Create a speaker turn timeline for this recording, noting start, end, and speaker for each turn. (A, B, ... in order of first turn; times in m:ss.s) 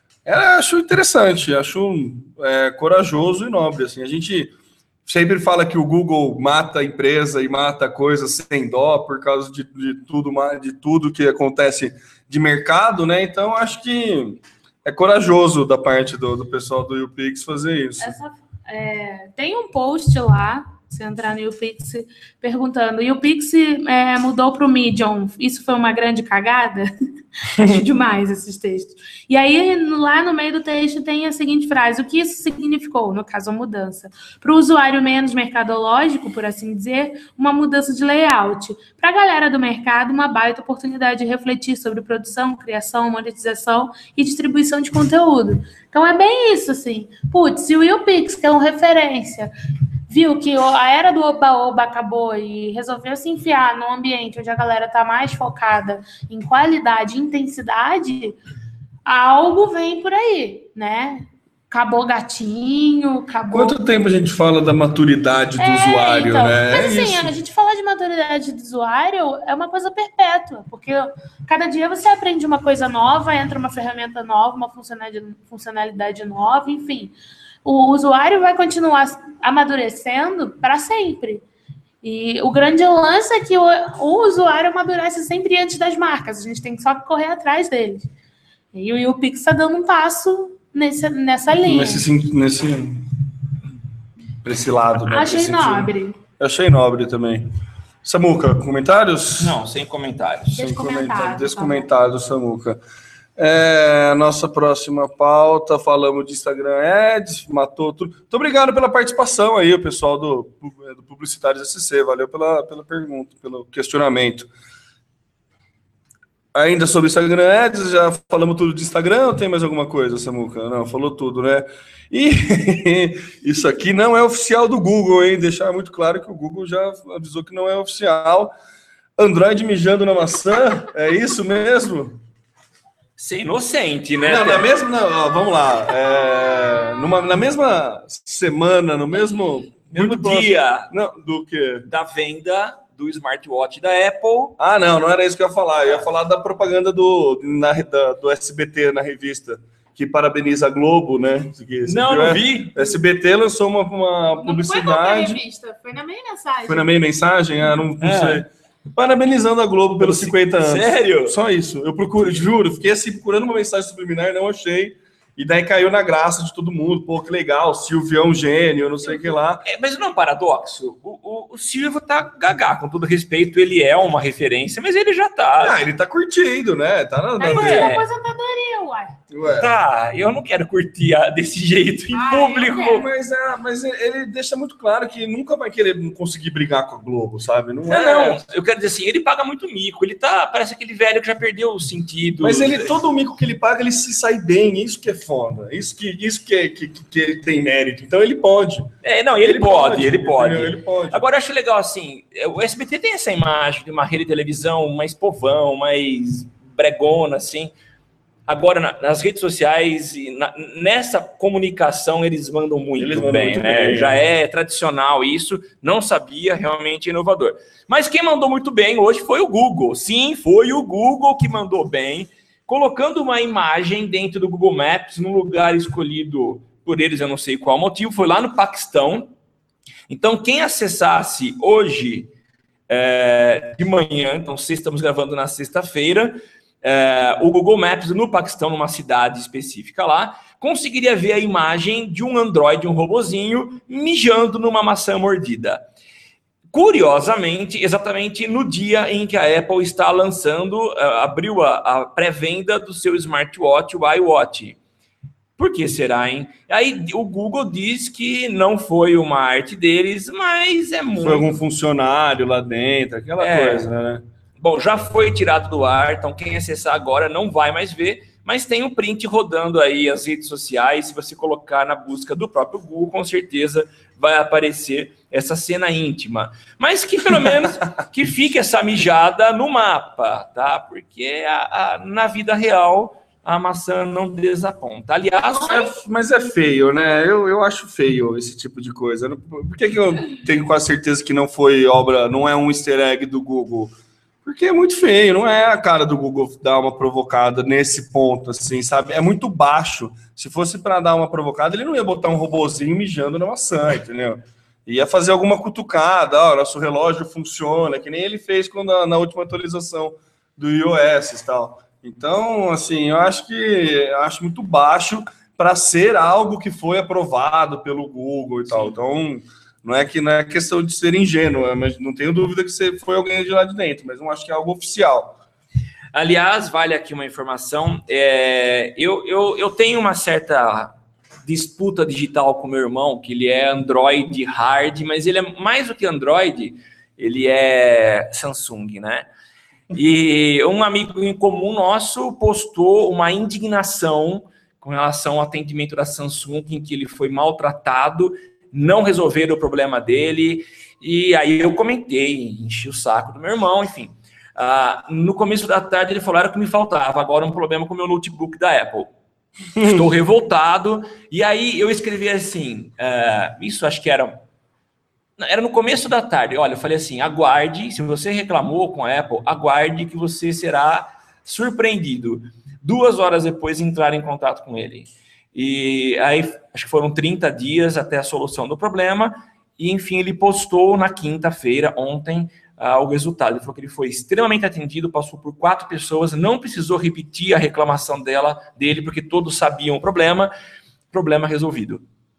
0:00.2-0:04.5 A
0:05.1-0:18.2 A
0:18.0-0:26.9 B
0:27.4-0:49.5 B
0:50.1-0:58.4 B
0:59.1-1:03.8 B
1:03.5-1:07.3 A
1:05.6-1:17.1 B
1:17.6-1:21.4 B
1:22.0-1:28.1 B
1:28.7-1:32.1 B
1:31.6-1:33.0 A
1:34.4-1:37.5 A
1:35.1-1:36.2 B
1:38.0-1:39.6 A
1:39.4-1:40.6 C
1:40.5-1:41.9 B
1:40.6-1:42.8 A
1:43.4-1:54.5 A
1:56.5-2:08.5 A
2:09.2-2:12.2 A
2:13.2-2:14.7 C
2:14.2-2:21.9 A
2:19.9-2:20.9 C
2:21.9-2:24.6 C
2:24.6-2:35.4 A
2:31.8-2:33.0 C
2:34.4-2:37.0 B
2:36.7-2:49.6 A
2:38.0-2:38.4 C
2:40.0-2:41.4 C
2:49.6-2:55.8 C
2:55.6-2:57.9 A
2:57.4-2:59.2 B
2:57.5-2:58.0 C
2:59.3-2:59.7 A
2:59.5-3:03.0 C
3:02.1-3:03.0 B
3:02.6-3:08.4 A
3:07.9-3:13.0 C
3:12.4-3:21.2 A
3:19.0-3:27.7 C
3:28.5-3:49.3 C
3:33.0-3:34.2 A
3:50.1-3:52.3 C
3:52.9-4:05.8 C
4:06.7-4:14.8 C
4:15.6-4:21.6 C
4:21.2-4:24.2 A
4:23.4-4:23.9 C
4:24.6-4:45.9 C
4:45.5-5:25.4 A
5:26.1-5:31.0 C
5:31.5-5:39.3 C
5:39.9-5:59.1 C
5:59.8-6:00.0 A
5:59.8-6:04.4 C
6:05.4-6:30.5 C
6:31.1-6:32.0 C